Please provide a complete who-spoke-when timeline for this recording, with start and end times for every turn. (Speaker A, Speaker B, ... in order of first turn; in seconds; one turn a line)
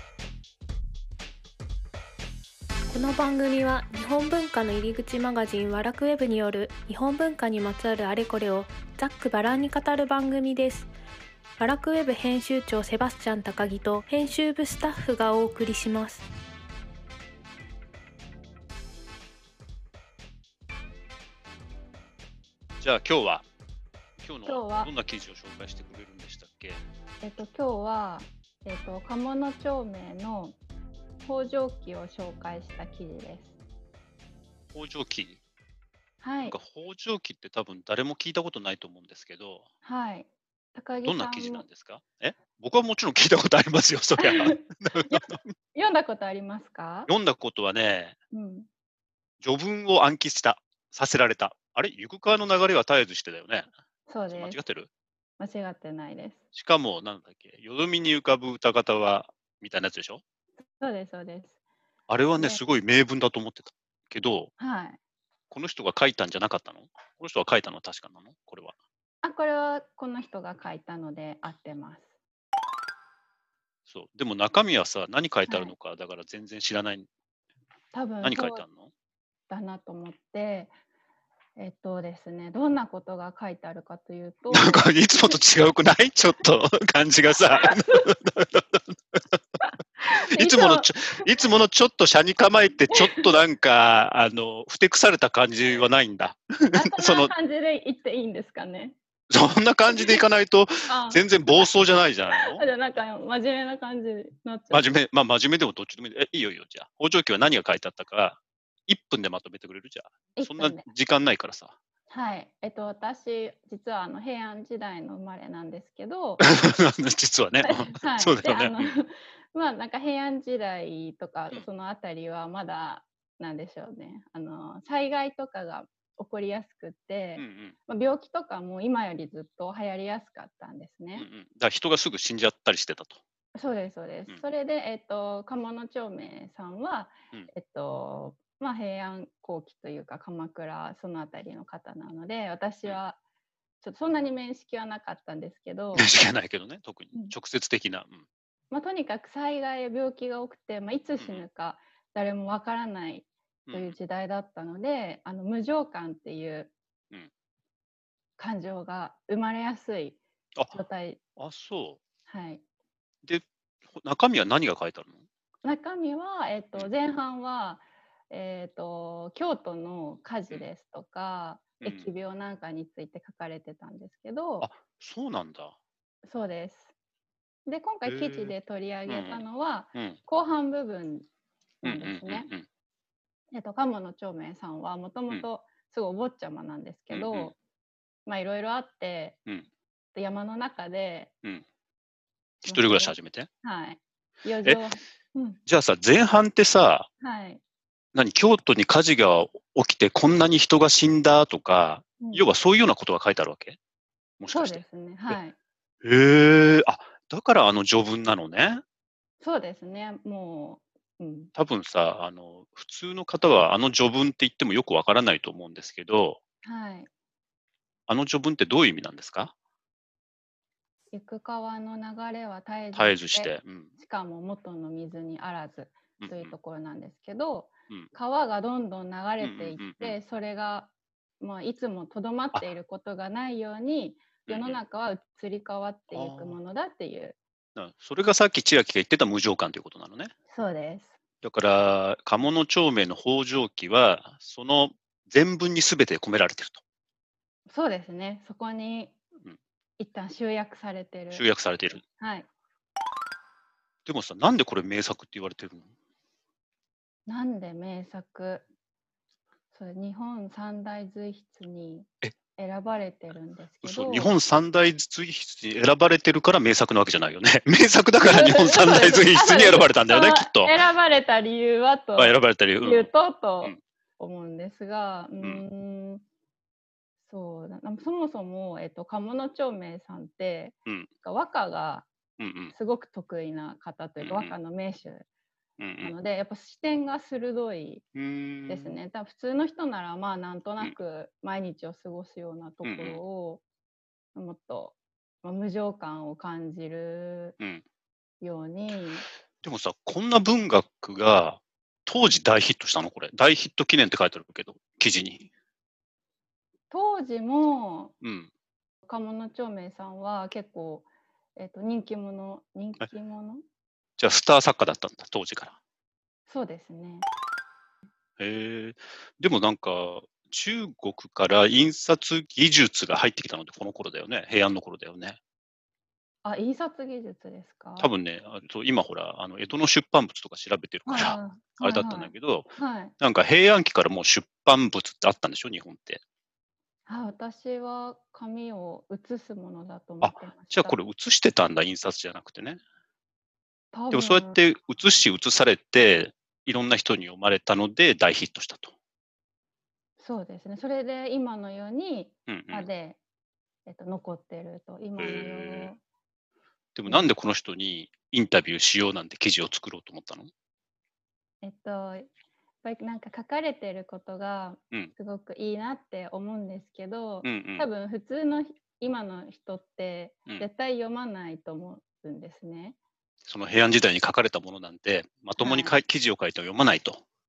Speaker A: 2.9-10.9
Speaker A: 11.6-16.2
Speaker B: 22.8-23.5
Speaker B: 24.2-26.8
Speaker C: 24.4-24.9
Speaker C: 27.2-30.6
Speaker C: 31.2-33.5
Speaker B: 34.7-35.4
Speaker C: 36.2-36.5
Speaker B: 36.5-39.7
Speaker C: 39.8-41.6
Speaker B: 41.0-45.5
Speaker C: 44.2-47.1
Speaker B: 47.1-48.1
Speaker C: 48.3-48.7
Speaker B: 49.4-53.7
Speaker C: 54.1-54.6
Speaker B: 54.3-54.9
Speaker C: 55.4-56.4
Speaker B: 56.5-60.2
Speaker C: 60.8-61.5
Speaker B: 62.1-64.5
Speaker C: 64.6-65.0
Speaker B: 65.5-68.7
Speaker C: 69.2-72.1
Speaker B: 73.9-77.1
Speaker C: 75.5-75.7
Speaker C: 77.9-78.6
Speaker B: 78.2-78.9
Speaker C: 79.5-80.7
Speaker C: 81.6-85.4
Speaker B: 84.5-89.2
Speaker C: 87.6-88.1
Speaker C: 90.0-91.2
Speaker B: 90.2-97.3
Speaker C: 92.9-93.2
Speaker C: 96.7-99.0
Speaker B: 99.3-102.6
Speaker C: 99.9-100.2
Speaker C: 100.9-101.7
Speaker C: 102.3-104.9
Speaker B: 104.7-111.7
Speaker C: 110.3-110.8
Speaker C: 112.1-116.4
Speaker B: 116.4-118.9
Speaker C: 117.6-131.3
Speaker B: 127.3-127.8
Speaker B: 131.2-133.2
Speaker C: 133.5-143.2
Speaker C: 143.8-146.1
Speaker B: 145.9-148.2
Speaker C: 148.7-156.7
Speaker B: 151.2-151.4
Speaker B: 153.7-154.0
Speaker C: 158.4-160.2
Speaker B: 160.6-160.8
Speaker C: 160.7-161.2
Speaker B: 161.4-162.0
Speaker C: 162.3-162.6
Speaker B: 163.2-165.2
Speaker C: 165.6-174.7
Speaker B: 171.8-172.1
Speaker B: 174.6-175.8
Speaker C: 176.2-176.9
Speaker C: 177.7-181.3
Speaker B: 178.0-178.5
Speaker B: 179.1-179.4
Speaker C: 181.8-182.5
Speaker B: 181.8-182.7
Speaker C: 183.5-187.6
Speaker B: 187.1-187.5
Speaker C: 188.2-189.4
Speaker C: 190.1-191.3
Speaker C: 192.6-195.6
Speaker B: 192.6-193.5
Speaker B: 195.7-197.1
Speaker C: 197.2-197.6
Speaker B: 198.1-203.8
Speaker C: 202.2-202.5
Speaker B: 204.4-205.4
Speaker C: 204.5-205.6
Speaker B: 206.0-208.8
Speaker C: 209.4-211.5
Speaker B: 211.6-216.4
Speaker C: 216.6-217.1
Speaker B: 218.1-219.5
Speaker C: 221.1-237.4
Speaker B: 222.9-223.9
Speaker B: 226.2-226.5
Speaker B: 229.4-230.2
Speaker B: 234.5-234.8
Speaker B: 236.1-236.6
Speaker B: 237.8-240.3
Speaker C: 240.5-241.1
Speaker B: 241.4-246.8
Speaker C: 247.7-249.2
Speaker C: 250.0-251.4
Speaker B: 251.3-252.0
Speaker C: 252.0-252.5
Speaker B: 254.1-255.9
Speaker C: 257.3-258.7
Speaker C: 259.7-264.3
Speaker B: 263.8-270.8
Speaker C: 268.2-276.2
Speaker B: 272.1-273.1
Speaker C: 277.2-282.1
Speaker B: 282.4-282.7
Speaker C: 282.7-285.2
Speaker B: 284.2-284.5
Speaker B: 285.8-286.1
Speaker C: 286.0-288.0
Speaker B: 288.1-288.9
Speaker C: 288.7-293.6
Speaker B: 292.8-293.2
Speaker C: 294.3-297.6
Speaker C: 298.4-299.3
Speaker B: 299.6-305.5
Speaker C: 306.9-308.1
Speaker B: 308.2-308.5
Speaker C: 309.0-313.6
Speaker B: 314.2-315.8
Speaker C: 316.5-317.3
Speaker B: 318.4-325.4
Speaker C: 326.4-328.1
Speaker B: 328.0-336.2
Speaker C: 331.1-333.1
Speaker C: 337.1-341.0
Speaker B: 340.2-342.8
Speaker C: 343.9-344.6
Speaker B: 344.1-348.9
Speaker C: 350.2-353.2
Speaker B: 352.5-352.9
Speaker C: 353.9-356.0
Speaker B: 355.2-355.9
Speaker B: 356.9-360.5
Speaker C: 361.6-362.3
Speaker C: 362.8-373.0
Speaker B: 367.4-367.9
Speaker B: 373.4-377.2
Speaker C: 375.6-376.0